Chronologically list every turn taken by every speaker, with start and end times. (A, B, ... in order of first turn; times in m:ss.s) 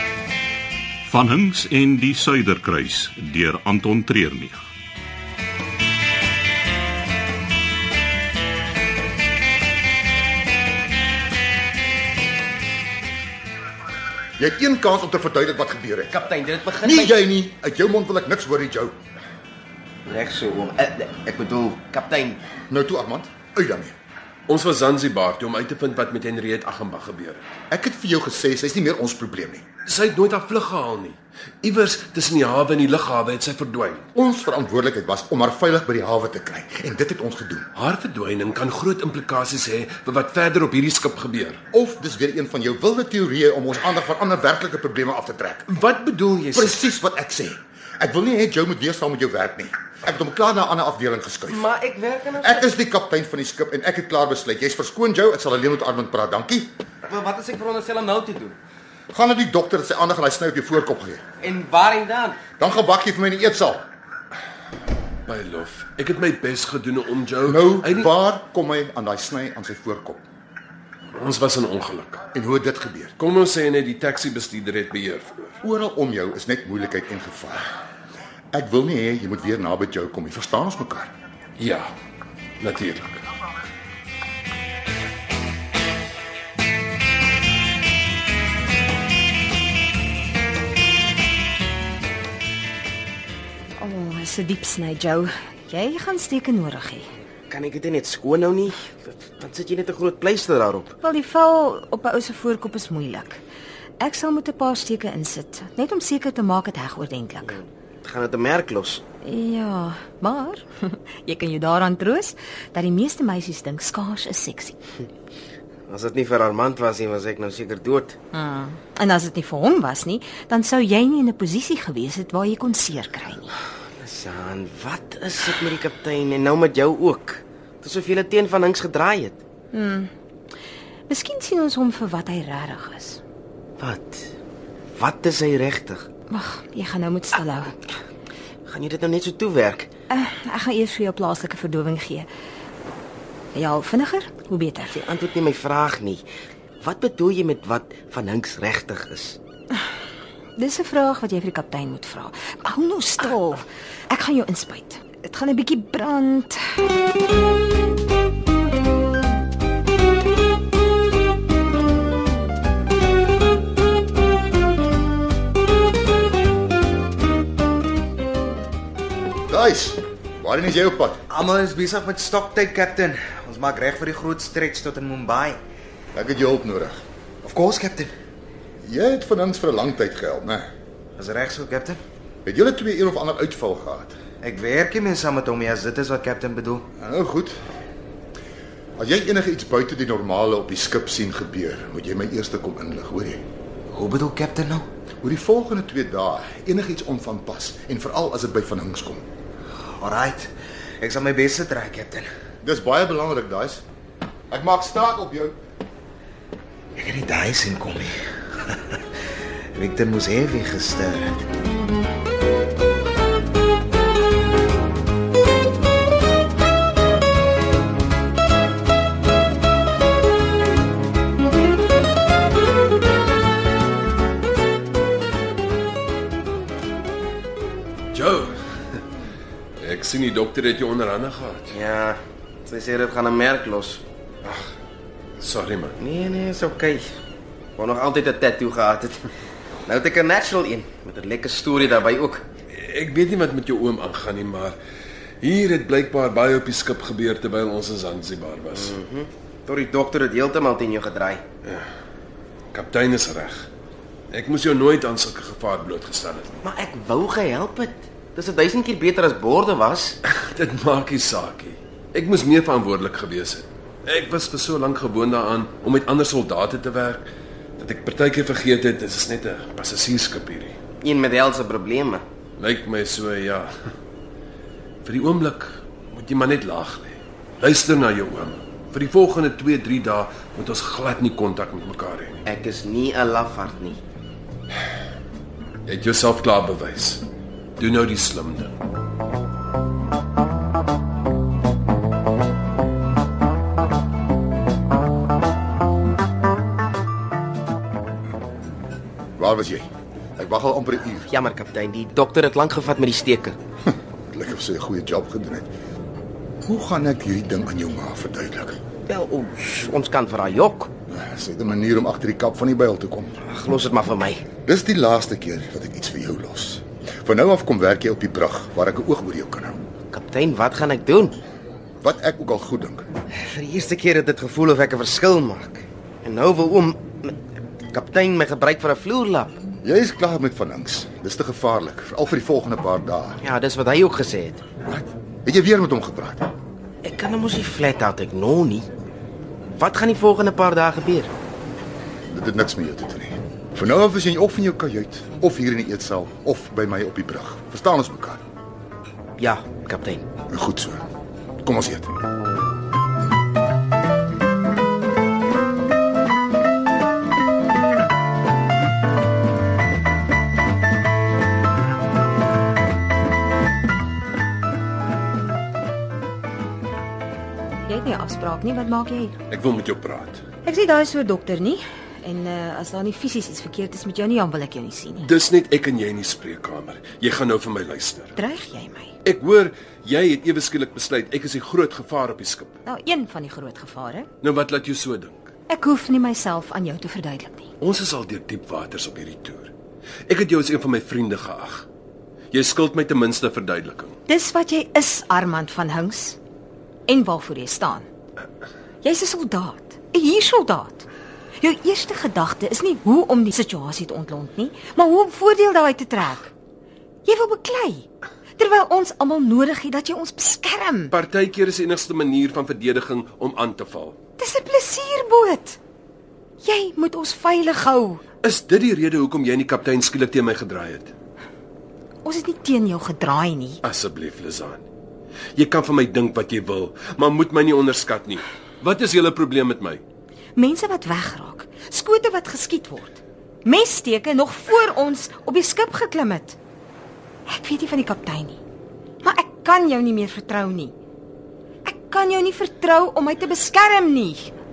0:01.0-0:04.6 A
0:14.4-0:16.1 B
0:16.1-0:17.2 C
0:16.8-0:18.9 B
0:20.0-0:22.4 C
0:22.7-0:23.9 B
0:24.5-0:27.4 D
0:27.7-0:29.6 B
0:29.8-0:34.0 D
0:34.1-0:37.7 B
0:37.7-0:41.6 D
0:41.7-0:45.7 B
0:45.7-0:46.8 D
0:46.5-0:51.7 B
0:51.5-0:52.7 C
0:52.4-0:56.7 B
0:57.0-0:58.6 C
0:59.1-1:01.2 B
1:01.4-1:02.4 C
1:02.6-1:03.8 B
1:05.2-1:08.1 D
1:07.4-1:10.2 B
1:11.2-1:12.2 D
1:12.3-1:13.1 B
1:13.2-1:15.6 D
1:15.6-1:17.7 B
1:18.5-1:21.1 B
1:21.6-1:21.9 D
1:22.6-1:23.2 D
1:33.8-1:37.0 E
1:37.5-1:40.9 C
1:41.0-1:43.4 E
1:44.0-1:47.5 E
1:47.4-1:49.0 C
1:49.2-1:54.8 E
1:55.9-1:58.2 C
1:58.3-2:03.5 E
2:03.9-2:09.4 C
2:09.7-2:10.1 E
2:11.1-2:13.2 E
2:13.8-2:14.3 C
2:15.0-2:16.1 C
2:16.3-2:17.8 E
2:18.7-2:19.9 C
2:20.1-2:22.3 E
2:23.5-2:25.0 E
2:24.9-2:26.2 C
2:26.8-2:29.4 C
2:30.6-2:36.6 E
2:49.5-2:51.2 B
2:51.3-2:55.6 F
2:56.1-2:57.0 B
2:57.4-2:58.1 F
2:58.8-3:00.7 B
3:01.2-3:02.0 F
3:02.4-3:04.2 B
3:04.4-3:06.8 F
3:07.0-3:07.6 B
3:09.0-3:13.4 B
3:13.9-3:14.8 F
3:15.2-3:19.2 B
3:20.0-3:20.5 F
3:21.0-3:22.3 F
3:22.6-3:23.8 B
3:24.5-3:25.5 B
3:27.0-3:29.0 F
3:29.7-3:31.4 F
3:48.1-3:48.6 D
3:49.8-3:51.8 D
3:51.7-3:54.0 C
3:55.4-3:56.0 D
3:56.0-3:57.0 C
3:57.8-3:59.3 C
3:59.8-4:02.4 C
4:02.7-4:04.8 D
4:05.4-4:09.0 D
4:08.7-4:11.4 C
4:12.7-4:13.7 D
4:14.3-4:16.5 D
4:16.6-4:20.2 C
4:20.2-4:27.2 D
4:27.8-4:30.8 D
4:31.0-4:32.2 C
4:32.6-4:33.7 D
4:35.0-4:42.4 D
4:42.4-4:44.0 C
4:45.8-4:47.2 D
4:47.8-4:48.8 D
4:59.4-5:01.3 B
5:01.3-5:03.6 C
5:03.8-5:05.7 B
5:06.6-5:08.8 B
5:09.1-5:10.9 C
5:11.1-5:13.4 B
5:13.4-5:14.4 C
5:14.6-5:19.8 B
5:20.1-5:21.4 C
5:22.0-5:23.1 B
5:23.3-5:27.4 C
5:27.9-5:29.5 C
5:29.8-5:33.4 B
5:33.4-5:34.6 C
5:34.8-5:36.5 B
5:37.0-5:38.9 C
5:39.8-5:41.3 C
5:42.3-5:48.4 B
5:49.4-5:50.3 C
5:50.5-5:51.0 B
5:51.6-5:52.1 B
6:07.8-6:09.4 E
6:09.5-6:10.4 D
6:10.6-6:15.3 E
6:15.2-6:18.3 D
6:18.4-6:19.1 E
6:19.2-6:22.7 D
6:22.8-6:24.3 E
6:24.4-6:25.5 D
6:25.7-6:27.7 E
6:27.8-6:29.7 D
6:30.3-6:31.8 D
6:32.5-6:34.2 D
6:34.3-6:36.4 E
6:37.1-6:38.1 E
6:39.0-6:41.1 E
6:41.6-6:46.5 E
6:47.2-6:48.0 E
6:48.6-6:51.1 E
6:51.1-6:54.2 D
6:54.4-6:55.8 E
6:56.6-6:58.2 E
6:58.4-7:01.1 D
7:02.2-7:03.8 E
7:03.8-7:04.8 D
7:05.6-7:10.0 D
7:10.6-7:16.6 E
7:17.5-7:18.6 E
7:19.2-7:20.9 E
7:21.8-7:24.5 E